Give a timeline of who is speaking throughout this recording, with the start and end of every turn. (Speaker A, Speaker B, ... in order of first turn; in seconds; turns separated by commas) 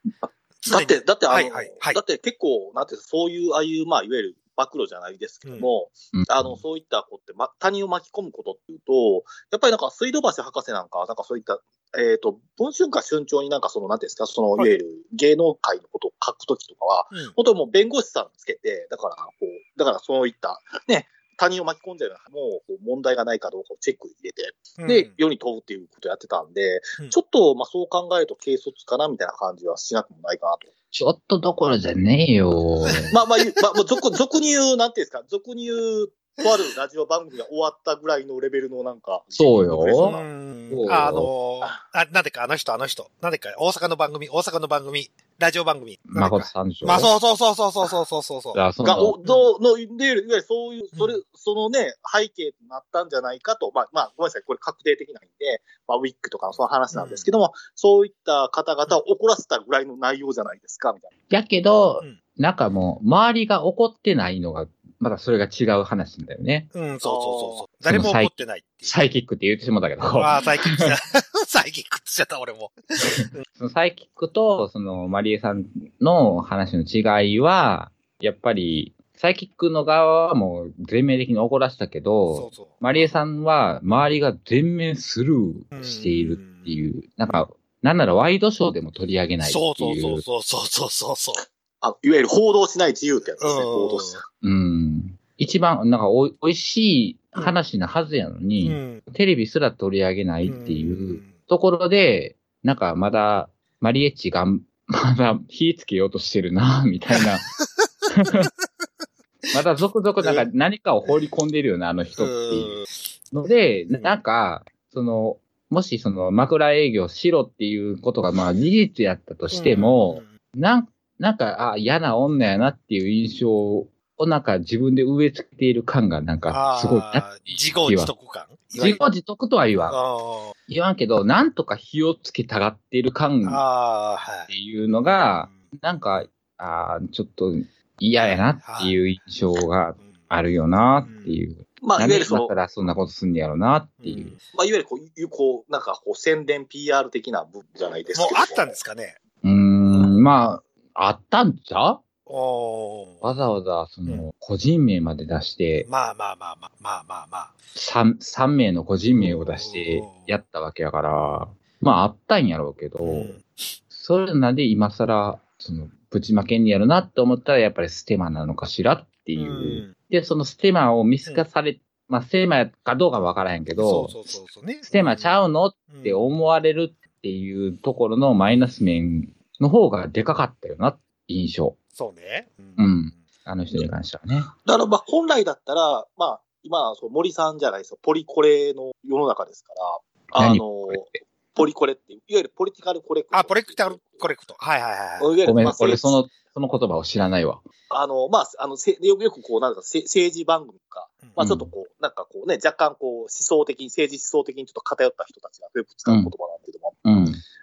Speaker A: 0.6-2.0, Speaker B: 0.7-30.7, Speaker C: 6.1-6.6, Speaker A: 24.8-25.1, Speaker C: 30.9-33.2, Speaker B: 33.1-40.2, Speaker C: 39.4-41.3, Speaker A: 40.0-48.6, Speaker C: 46.1-47.1, Speaker C: 48.5-49.1, Speaker B: 48.8-61.1, Speaker A: 56.9-57.3, Speaker C: 61.3-66.7, Speaker A: 66.7-68.9, Speaker B: 67.0-67.7, Speaker C: 67.8-68.3, Speaker C: 68.8-70.9, Speaker A: 70.2-73.5, Speaker C: 73.0-90.2, Speaker A: 82.3-82.8, Speaker A: 85.7-86.8, Speaker A: 89.5-91.4, Speaker B: 91.8-94.2, Speaker A: 93.4-94.2, Speaker C: 94.4-107.5, Speaker A: 98.6-99.0, Speaker A: 100.5-101.3, Speaker C: 108.1-108.5, Speaker C: 109.5-112.8, Speaker A: 110.2-110.5, Speaker A: 112.2-112.9, Speaker C: 113.3-128.1, Speaker A: 113.9-114.2, Speaker A: 119.5-120.3, Speaker A: 126.5-129.1, Speaker C: 128.8-130.0, Speaker A: 129.8-130.6, Speaker C: 130.7-133.6, Speaker A: 133.4-134.5, Speaker C: 134.5-144.3, Speaker A: 135.1-135.6, Speaker A: 138.2-138.9, Speaker A: 140.0-140.3, Speaker A: 141.0-141.4, Speaker B: 141.8-142.5, Speaker A: 144.0-144.4, Speaker B: 144.5-148.8, Speaker A: 148.2-149.2, Speaker C: 149.4-152.0, Speaker A: 152.3-153.3, Speaker C: 153.2-155.9, Speaker A: 155.8-157.5, Speaker C: 157.8-163.3, Speaker A: 159.1-160.3, Speaker A: 163.0-163.5, Speaker C: 163.9-174.2, Speaker A: 169.4-169.9, Speaker A: 173.7-175.4, Speaker C: 174.9-181.8, Speaker A: 175.9-176.3, Speaker A: 182.0-182.9, Speaker C: 182.8-184.5, Speaker B: 184.7-194.2, Speaker C: 190.3-191.1, Speaker A: 193.3-195.3, Speaker B: 195.2-196.2, Speaker C: 195.4-197.6, Speaker B: 197.9-207.0, Speaker C: 201.4-201.7, Speaker C: 206.1-206.3, Speaker C: 207.1-207.4